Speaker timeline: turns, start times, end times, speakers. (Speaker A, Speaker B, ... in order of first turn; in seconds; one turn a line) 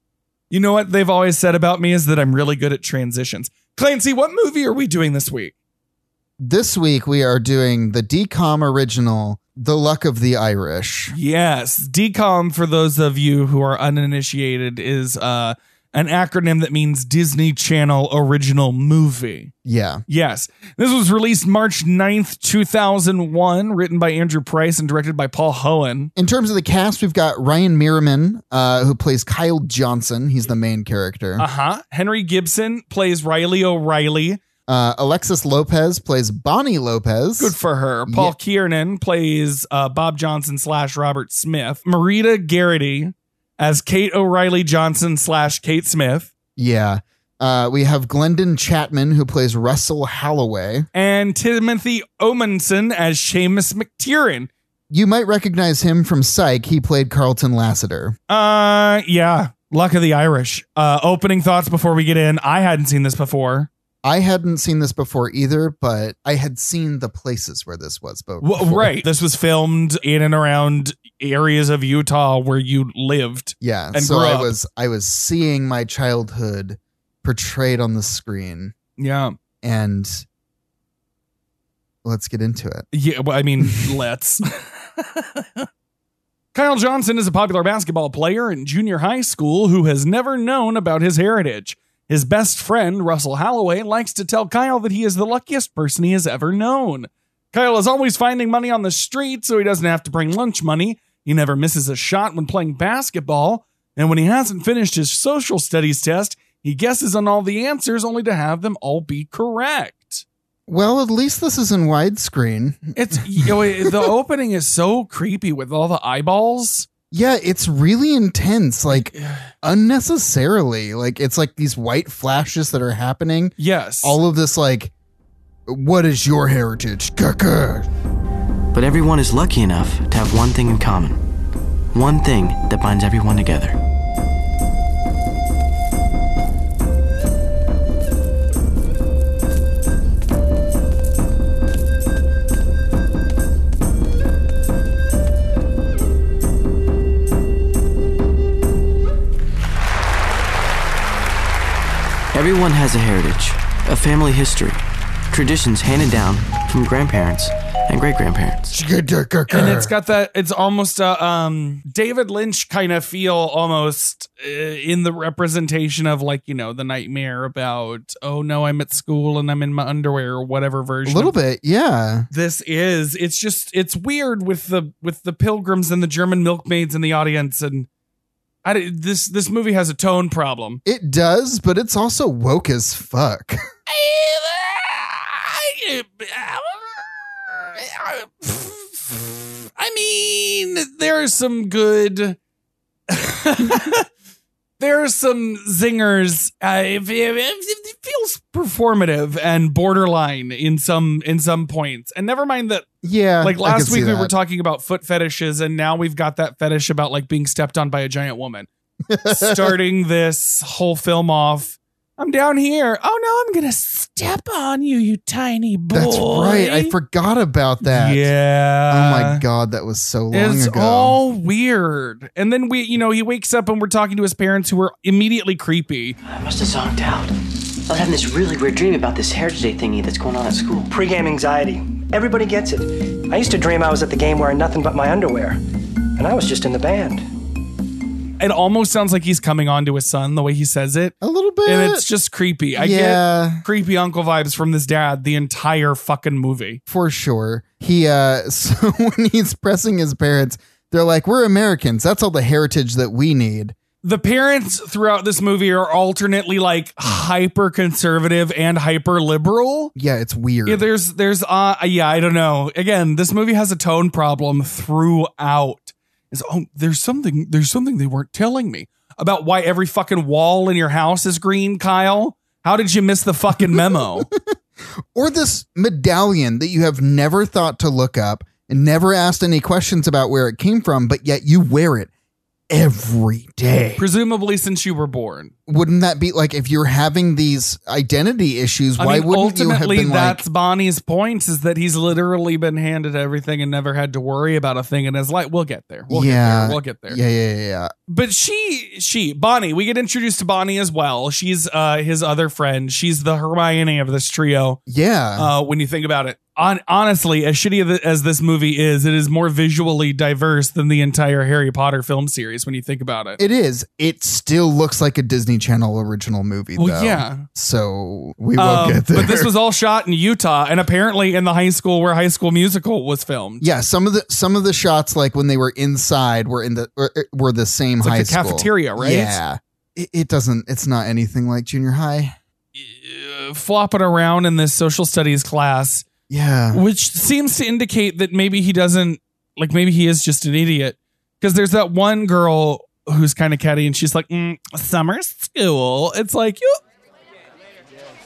Speaker A: 0.5-5.5
Speaker B: 6.4-11.2
Speaker A: 11.1-19.5
Speaker B: 19.6-20.0
Speaker A: 20.1-26.1
Speaker B: 26.2-31.4
Speaker A: 31.4-34.4
Speaker B: 34.7-37.6
Speaker A: 37.4-46.3
Speaker B: 38.1-38.4
Speaker B: 46.6-50.9
Speaker A: 51.0-54.5
Speaker B: 54.9-58.2
Speaker A: 58.3-63.7
Speaker B: 64.0-69.0
Speaker A: 68.4-74.5
Speaker B: 73.6-78.7
Speaker A: 79.0-79.3
Speaker B: 79.6-80.2
Speaker B: 82.0-82.9
Speaker A: 82.9-85.7
Speaker A: 86.5-110.2
Speaker B: 110.7-114.1
Speaker A: 113.0-116.9
Speaker B: 117.1-124.9
Speaker A: 118.9-119.5
Speaker A: 123.6-124.2
Speaker B: 125.7-127.9
Speaker C: 128.7-131.2
Speaker C: 131.9-133.8
Speaker C: 152.3-158.7
Speaker B: 158.7-159.9
Speaker A: 159.5-171.3
Speaker B: 171.1-172.3
Speaker A: 172.3-177.9
Speaker A: 178.6-180.8
Speaker B: 180.8-183.6
Speaker A: 183.9-192.4
Speaker A: 193.1-194.1
Speaker A: 194.8-202.9
Speaker B: 203.0-204.3
Speaker A: 203.4-208.7
Speaker B: 209.1-209.8
Speaker A: 209.3-216.9
Speaker B: 215.9-218.3
Speaker A: 217.8-219.4
Speaker B: 218.9-221.2
Speaker A: 220.3-226.2
Speaker C: 226.2-227.3
Speaker C: 227.9-230.9
Speaker D: 230.9-235.6
Speaker D: 236.2-237.2
Speaker A: 238.4-246.8
Speaker B: 241.2-242.1
Speaker B: 242.8-243.6
Speaker B: 246.9-253.8
Speaker A: 254.0-259.9
Speaker B: 259.9-260.9
Speaker A: 260.7-274.3
Speaker B: 273.6-274.6
Speaker B: 275.1-282.1
Speaker B: 282.7-284.1
Speaker A: 284.0-285.5
Speaker B: 285.7-290.4
Speaker A: 289.0-297.2
Speaker B: 296.1-297.9
Speaker A: 298.1-304.8
Speaker B: 304.9-305.5
Speaker A: 305.4-313.4
Speaker B: 313.4-319.5
Speaker A: 316.8-317.5
Speaker A: 318.6-323.7
Speaker B: 323.6-332.4
Speaker A: 328.0-329.4
Speaker A: 332.8-336.1
Speaker B: 336.3-336.8
Speaker A: 336.7-346.8